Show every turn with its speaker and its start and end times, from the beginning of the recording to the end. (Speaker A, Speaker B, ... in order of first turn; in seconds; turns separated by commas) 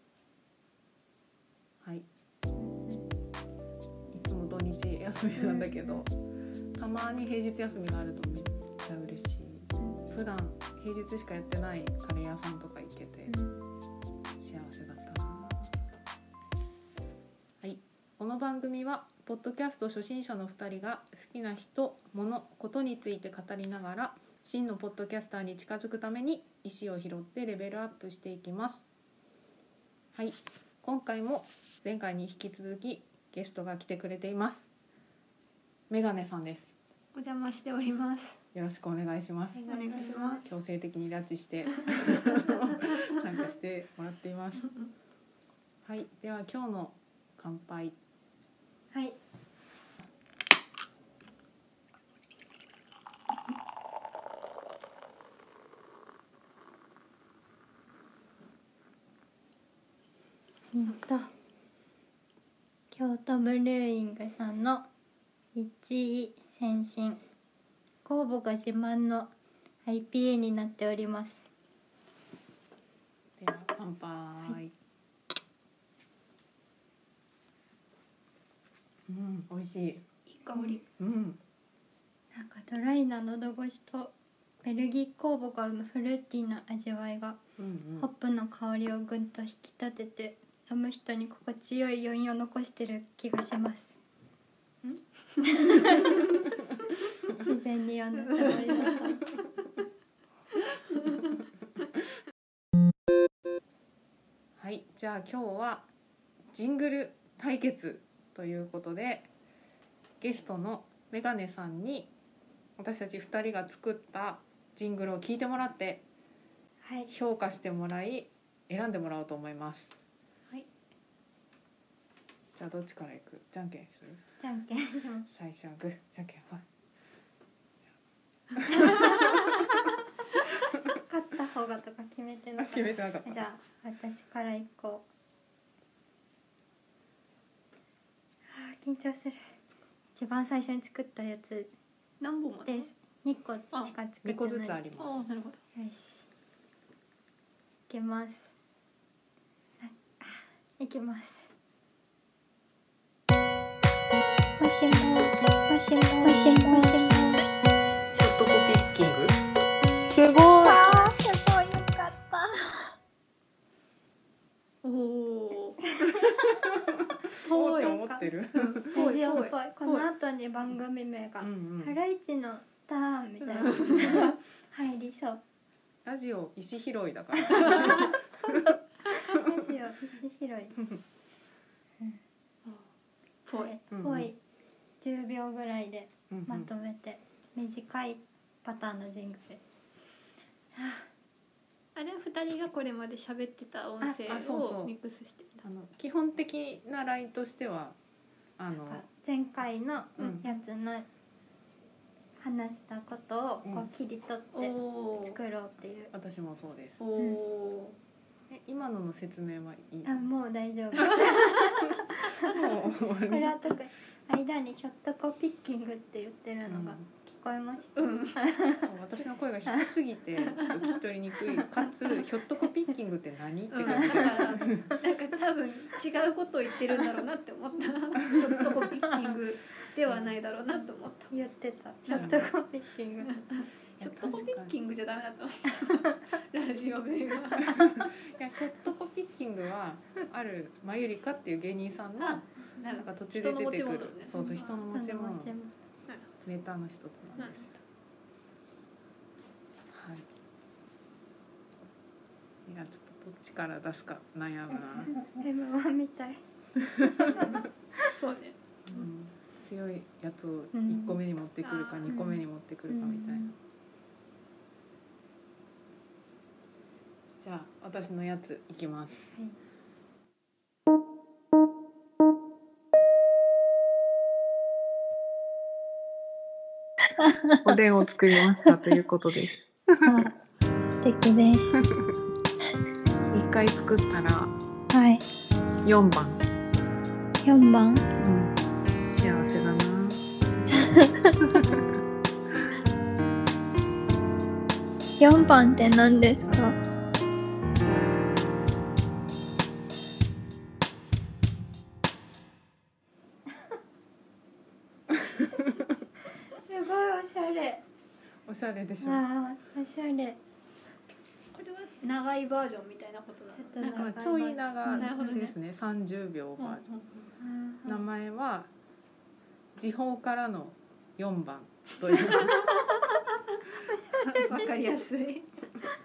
Speaker A: 2.6-3.1, Speaker B: 4.1-6.1, Speaker C: 5.4-5.7, Speaker B: 6.8-13.3, Speaker A: 13.3-13.6, Speaker B: 14.4-15.7, Speaker B: 17.6-28.8, Speaker B: 30.1-34.7, Speaker B: 35.9-36.8, Speaker C: 37.1-38.4, Speaker B: 38.5-44.7, Speaker A: 39.5-40.6, Speaker C: 39.7-40.5, Speaker B: 45.8-48.0, Speaker A: 48.9-49.2, Speaker A: 60.7-61.3, Speaker A: 62.9-64.9, Speaker A: 65.5-67.2, Speaker A: 68.0-69.3, Speaker A: 69.8-71.4, Speaker B: 73.4-74.7, Speaker B: 79.1-80.0, Speaker C: 80.3-80.8, Speaker B: 81.0-81.4, Speaker A: 82.3-87.4, Speaker B: 87.6-88.1, Speaker A: 88.0-94.0, Speaker A: 94.8-96.4, Speaker A: 97.3-99.2, Speaker C: 98.2-99.1, Speaker C: 100.9-101.4, Speaker B: 104.6-105.9, Speaker B: 106.5-109.3, Speaker B: 110.2-112.1, Speaker B: 112.8-116.0, Speaker A: 116.8-117.1, Speaker B: 117.1-120.0, Speaker B: 122.5-124.2, Speaker A: 124.4-125.3, Speaker B: 125.3-126.6, Speaker B: 128.6-129.1, Speaker A: 131.1-135.1, Speaker B: 132.6-133.5, Speaker A: 138.5-139.5, Speaker A: 140.2-141.7, Speaker C: 142.2-142.9, Speaker A: 142.6-144.8, Speaker B: 144.2-145.2, Speaker C: 145.0-145.6, Speaker A: 145.7-146.2, Speaker A: 147.9-148.5, Speaker A: 149.8-151.5, Speaker A: 154.6-157.4, Speaker C: 156.2-157.0, Speaker B: 158.1-159.4, Speaker B: 160.1-160.9, Speaker A: 160.6-162.4, Speaker C: 164.8-165.8, Speaker B: 166.5-169.1, Speaker C: 167.4-168.0, Speaker A: 167.6-168.3, Speaker C: 168.5-170.1, Speaker A: 168.9-175.4, Speaker B: 171.4-171.9, Speaker C: 173.5-174.3, Speaker B: 176.0-178.8, Speaker A: 179.1-180.8, Speaker C: 183.4-183.8, Speaker A: 183.5-184.4, Speaker B: 183.9-184.3, Speaker A: 185.0-189.6, Speaker B: 186.3-186.7, Speaker A: 190.7-191.1, Speaker C: 191.9-195.6, Speaker B: 194.1-194.9, Speaker B: 195.6-197.9, Speaker B: 198.6-199.1, Speaker A: 198.8-201.1, Speaker B: 200.2-200.4, Speaker A: 202.4-206.1, Speaker C: 204.5-205.4, Speaker B: 206.1-207.0, Speaker C: 207.0-208.0, Speaker B: 208.5-210.3, Speaker A: 210.0-218.9, Speaker B: 210.9-211.2, Speaker B: 212.3-213.6, Speaker B: 216.7-217.1, Speaker C: 217.9-218.4, Speaker B: 218.6-224.9, Speaker C: 220.6-220.9, Speaker C: 223.7-231.3, Speaker B: 230.1-230.3, Speaker A: 231.3-233.4, Speaker C: 232.1-232.4, Speaker B: 232.1-232.5, Speaker C: 233.2-237.8, Speaker B: 234.0-234.7, Speaker B: 237.6-245.5, Speaker C: 242.2-244.6, Speaker A: 244.3-245.7, Speaker B: 246.4-247.8, Speaker B: 249.9-250.2, Speaker B: 252.7-255.2, Speaker A: 255.1-256.4, Speaker A: 257.0-258.1, Speaker C: 258.1-258.6, Speaker B: 258.9-263.6, Speaker A: 260.7-261.2, Speaker C: 261.6-262.1, Speaker A: 262.1-263.5, Speaker B: 267.4-269.4, Speaker A: 277.2-277.6, Speaker B: 277.6-280.1, Speaker A: 280.0-280.4, Speaker A: 281.0-281.8, Speaker B: 281.8-282.1, Speaker B: 283.3-284.5, Speaker A: 284.9-285.2, Speaker B: 285.8-286.4, Speaker A: 287.4-288.1, Speaker B: 288.2-288.5, Speaker B: 289.1-290.2, Speaker A: 290.8-291.3, Speaker B: 291.4-291.8, Speaker A: 295.2-296.8, Speaker A: 306.6-307.8, Speaker B: 308.4-309.2, Speaker A: 309.0-310.4, Speaker C: 311.5-314.2, Speaker A: 313.5-315.1, Speaker B: 313.8-316.8, Speaker C: 314.9-315.5, Speaker C: 316.6-317.3, Speaker A: 317.4-318.1, Speaker B: 317.8-318.7, Speaker B: 319.8-322.6, Speaker C: 322.2-323.2, Speaker A: 323.9-324.7, Speaker C: 324.3-325.5